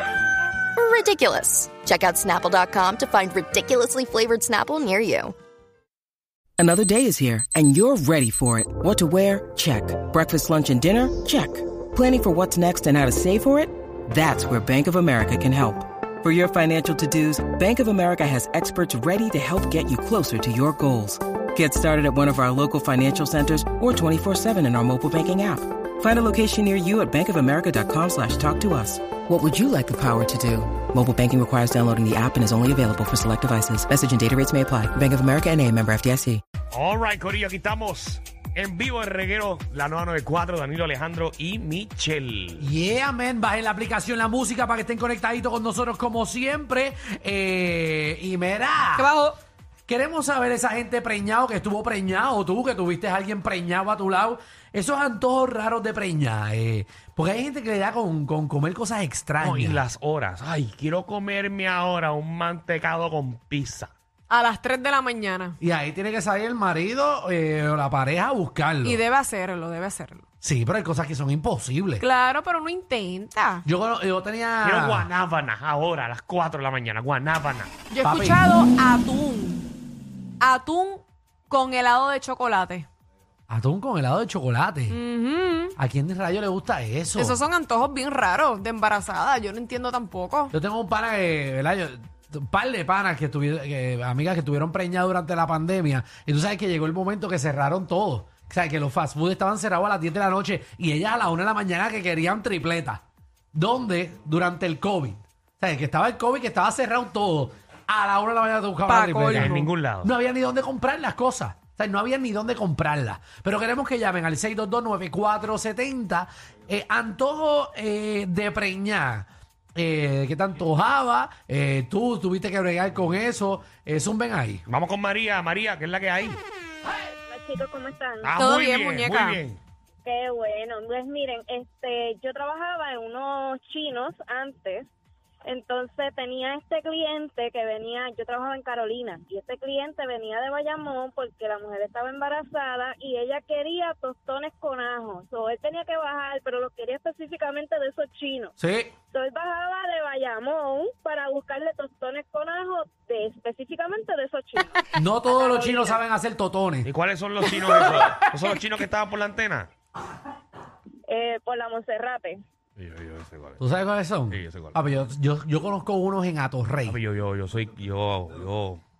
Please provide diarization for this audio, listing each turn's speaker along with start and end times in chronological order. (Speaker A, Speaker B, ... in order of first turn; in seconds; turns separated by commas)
Speaker A: 0.8-5.3, Speaker B: 6.6-36.4, Speaker C: 36.7-42.7, Speaker D: 42.6-49.1, Speaker E: 49.0-49.3, Speaker D: 49.9-59.8, Speaker C: 59.4-63.9, Speaker E: 64.3-65.5, Speaker D: 65.6-69.0, Speaker E: 68.8-70.2, Speaker D: 70.4-72.0, Speaker E: 72.0-73.6, Speaker D: 73.6-75.1, Speaker C: 74.6-77.7, Speaker E: 77.9-79.7, Speaker D: 78.0-78.4, Speaker E: 80.4-82.9, Speaker D: 83.5-85.0, Speaker E: 84.9-85.7, Speaker D: 85.8-87.4, Speaker E: 87.2-90.5, Speaker D: 90.5-103.0, Speaker D: 103.5-124.6, Speaker E: 108.9-109.7, Speaker C: 109.3-110.1, Speaker C: 124.7-126.4, Speaker F: 127.3-128.4, Speaker C: 128.2-129.6, Speaker E: 128.3-129.4, Speaker F: 130.0-134.9, Speaker F: 135.4-148.5, Speaker D: 148.6-148.9, Speaker F: 149.1-156.0, Speaker D: 154.9-156.9, Speaker C: 156.8-159.7, Speaker E: 157.6-158.3, Speaker F: 161.1-162.4, Speaker C: 162.8-163.6, Speaker D: 163.6-167.0, Speaker C: 164.3-164.8, Speaker C: 166.8-168.8